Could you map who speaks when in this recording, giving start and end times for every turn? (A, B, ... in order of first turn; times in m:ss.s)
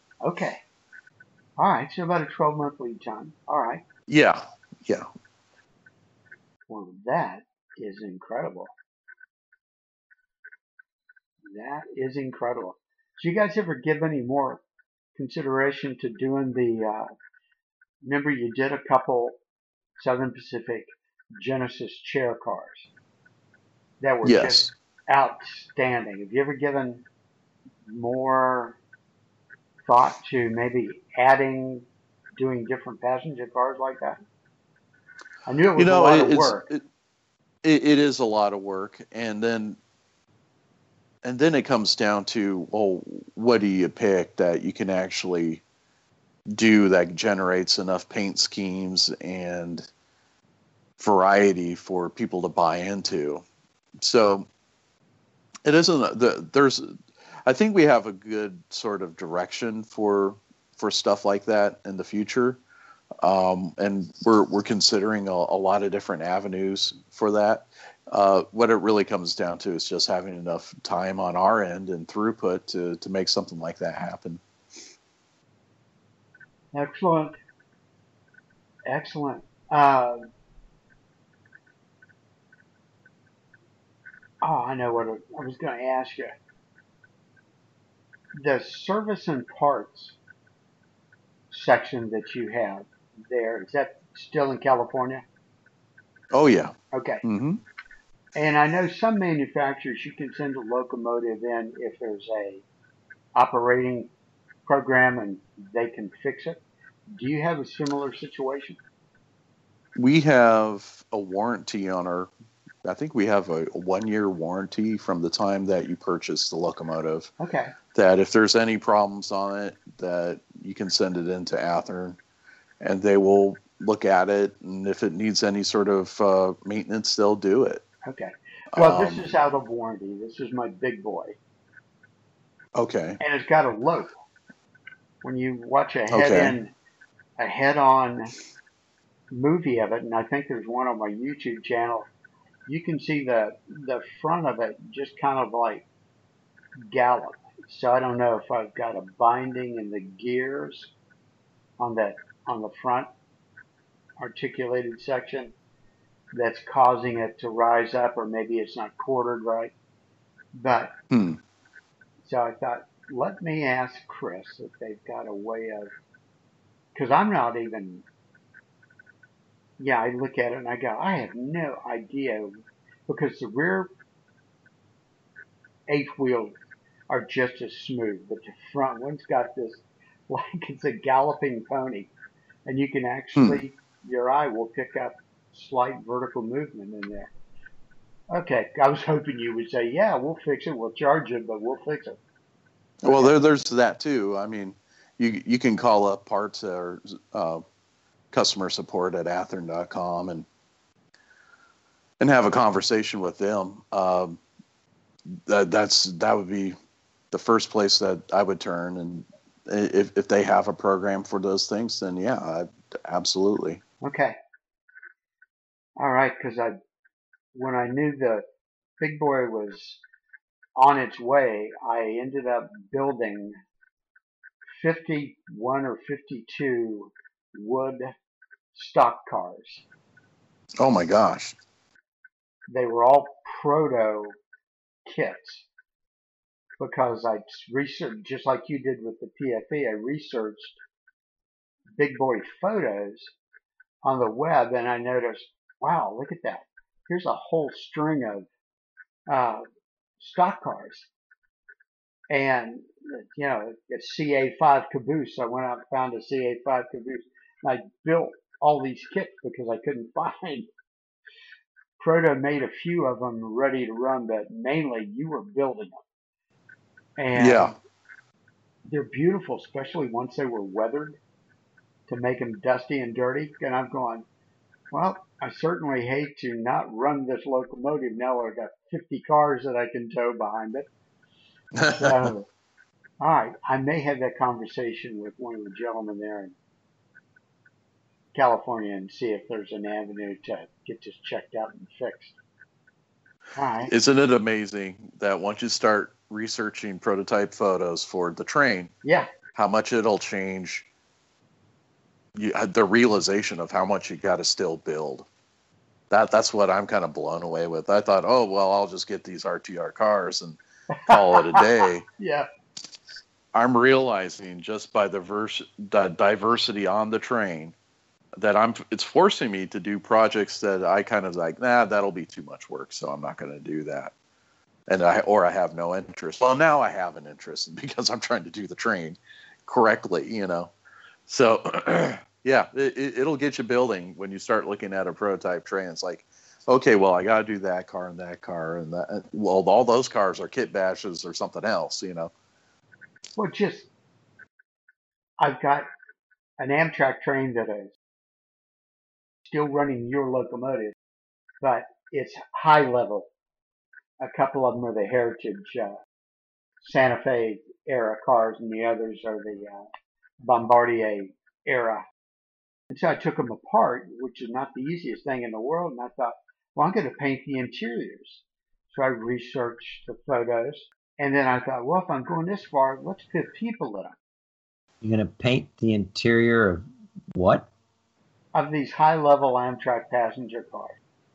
0:00.2-0:00.6 A
0:01.6-0:03.8 A
0:04.1-0:05.1 B
0:06.7-0:08.7 A
0:11.5-0:14.6 A
0:15.2-0:17.1 A
0:18.0-0:19.4 A
0:20.0-0:22.9 A
0:24.0-0:27.0 A
0:24.2-0:24.7 B
0:27.9-0:28.8 A
0:29.9-0:34.2 A
0:35.5-0:36.7 A
0:35.8-0:36.8 B
0:37.6-0:39.8 B
0:41.2-0:45.6 B
0:46.6-0:49.9 B
0:51.0-0:53.4 B
0:54.0-0:54.5 B
0:55.6-0:56.9 B
0:57.5-1:02.6 B
1:03.2-1:14.4 B
1:16.7-1:17.4 A
1:18.9-1:20.3 A
1:24.4-1:26.3 A
1:28.3-1:30.2 A
1:31.5-1:35.2 A
1:36.3-1:37.6 B
1:36.9-1:37.2 A
1:38.4-1:42.6 A
1:43.4-1:44.1 A
1:44.7-1:46.6 A
1:47.2-1:48.8 A
1:50.0-1:52.3 B
1:52.8-1:57.3 B
1:57.4-1:57.8 A
1:57.9-2:02.2 B
2:02.8-2:07.8 B
2:08.1-2:11.4 A
2:08.7-2:09.3 B
2:12.8-2:13.2 B
2:13.2-2:14.1 A
2:15.2-2:16.7 A
2:16.1-2:16.6 B
2:17.4-2:18.3 A
2:19.3-2:22.1 A
2:22.7-2:25.8 A
2:26.8-2:30.9 A
2:31.8-2:33.1 A
2:34.2-2:35.5 A
2:36.3-2:39.7 A
2:40.6-2:40.9 A
2:41.1-2:41.4 B
2:42.2-2:45.9 A
2:47.0-2:48.0 A
2:49.8-2:53.9 A
2:55.9-2:56.5 A
2:57.1-3:02.1 A
3:02.7-3:07.3 A
3:03.4-3:03.6 B
3:08.3-3:12.2 A
3:13.0-3:17.6 B
3:18.3-3:20.5 B
3:22.2-3:24.4 B
3:25.5-3:26.8 B
3:27.3-3:33.8 B
3:34.0-3:34.4 A
3:36.0-3:36.8 A
3:37.5-3:38.4 A
3:39.0-3:40.0 A
3:40.8-3:43.6 A
3:44.8-3:48.1 A
3:48.7-3:49.8 A
3:50.8-3:51.6 B
3:52.7-3:54.4 A
3:55.1-3:55.7 A
3:56.8-4:00.8 A
4:02.0-4:03.3 A
4:04.0-4:08.5 A
4:09.3-4:09.6 A
4:10.2-4:11.1 A
4:12.3-4:20.7 A
4:22.0-4:26.0 A
4:27.2-4:27.7 A
4:27.4-4:27.7 B
4:28.9-4:31.2 A
4:32.1-4:34.2 A
4:34.9-4:40.9 A
4:41.8-4:42.3 B
4:41.9-4:42.5 A
4:43.2-4:46.6 A
4:48.4-4:52.3 A
4:53.6-4:53.9 A
4:53.9-4:58.9 B
4:59.0-4:59.3 A
4:59.6-5:00.9 B
5:02.4-5:05.3 B
5:06.1-5:10.6 B
5:10.9-5:12.5 A
5:11.1-5:12.0 B
5:13.5-5:17.7 B
5:18.4-5:24.1 B
5:24.9-5:30.7 B
5:31.3-5:42.3 B
5:43.4-5:43.9 A
5:45.4-5:45.9 A
5:46.6-5:48.0 A
5:49.4-5:51.0 A
5:51.6-5:53.3 A
5:54.2-5:56.0 A
5:56.8-5:59.9 A
6:00.4-6:02.0 A
6:02.9-6:14.2 A
6:15.0-6:17.7 C
6:18.5-6:20.9 A